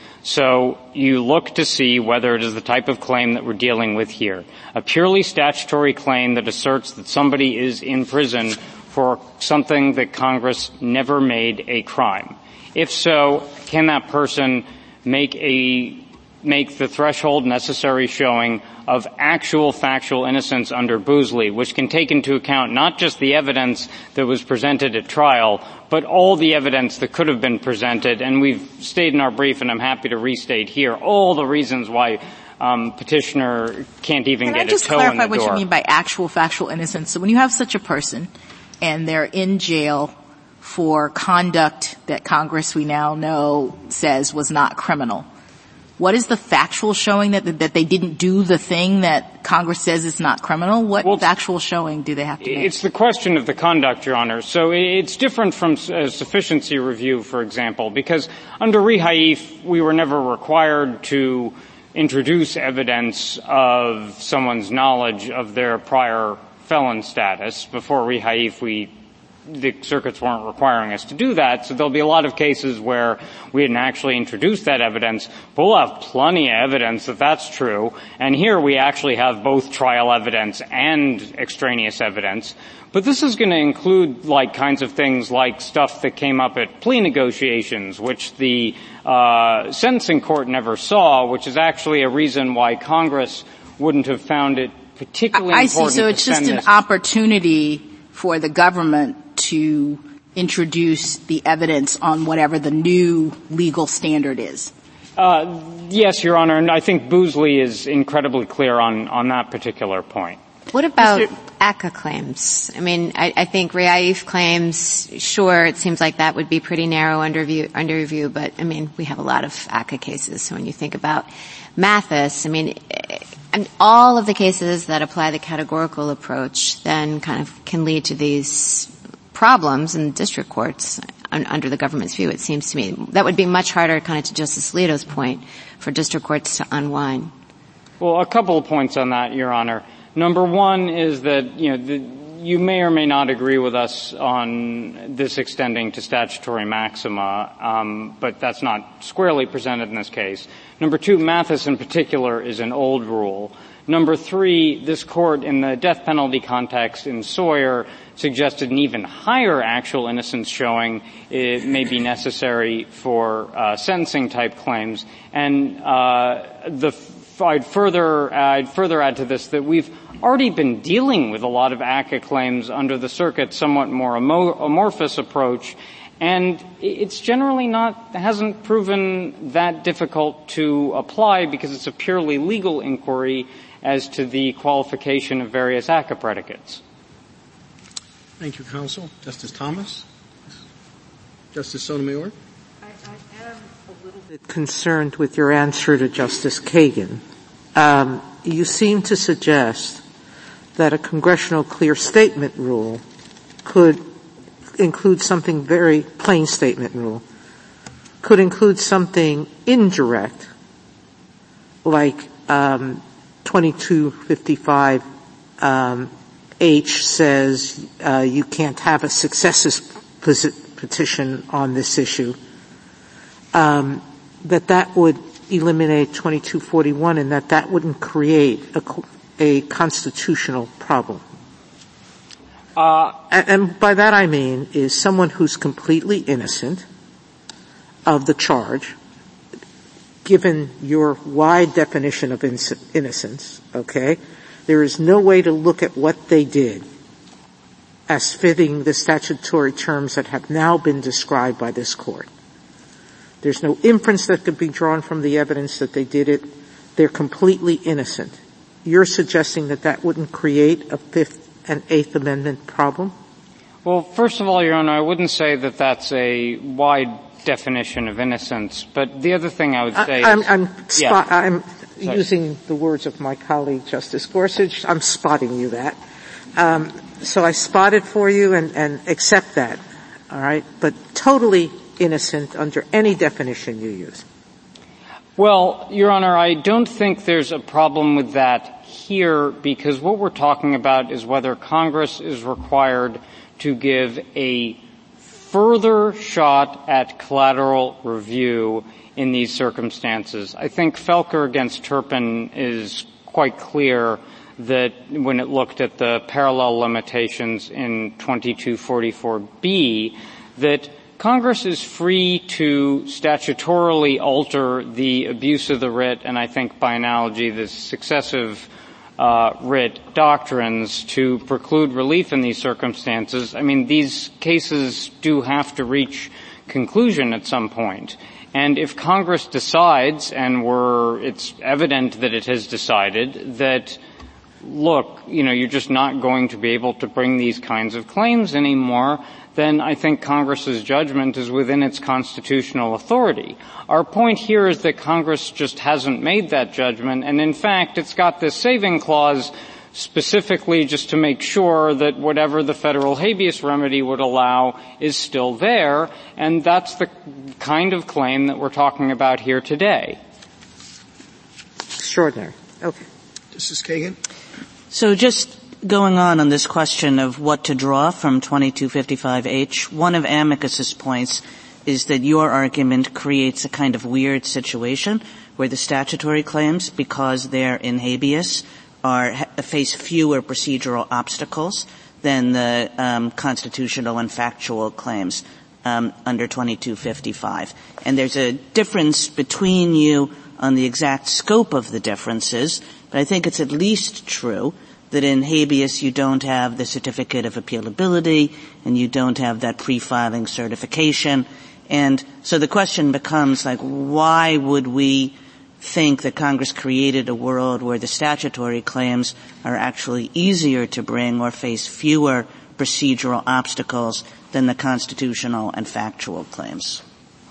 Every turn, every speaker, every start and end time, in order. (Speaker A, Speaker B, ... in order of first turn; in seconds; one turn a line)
Speaker A: 0.2-35.6
Speaker B: 34.4-45.3
Speaker B: 46.0-52.7
Speaker A: 52.4-68.9
Speaker A: 69.5-96.7
Speaker B: 95.3-104.7
Speaker A: 105.2-110.4
Speaker C: 110.7-137.3
Speaker A: 138.0-186.8
Speaker D: 188.4-190.0
Speaker D: 191.5-192.3
Speaker E: 194.2-197.2
Speaker E: 197.7-200.0
Speaker E: 200.8-203.0
Speaker E: 203.6-204.0
Speaker E: 204.8-207.2
Speaker E: 208.2-210.5
Speaker E: 211.8-215.0
Speaker E: 215.6-222.4
Speaker E: 223.5-231.2
Speaker A: 232.8-233.1
Speaker E: 233.3-236.8
Speaker E: 238.1-238.9
Speaker E: 240.2-246.8
Speaker E: 248.1-252.3
Speaker E: 253.4-263.1
Speaker A: 263.8-271.2
Speaker E: 269.9-276.0
Speaker E: 276.5-284.2
Speaker A: 285.4-294.8
Speaker A: 295.3-334.0
Speaker A: 334.6-360.2
Speaker E: 361.9-363.0
Speaker D: 363.5-364.2
Speaker F: 364.9-417.0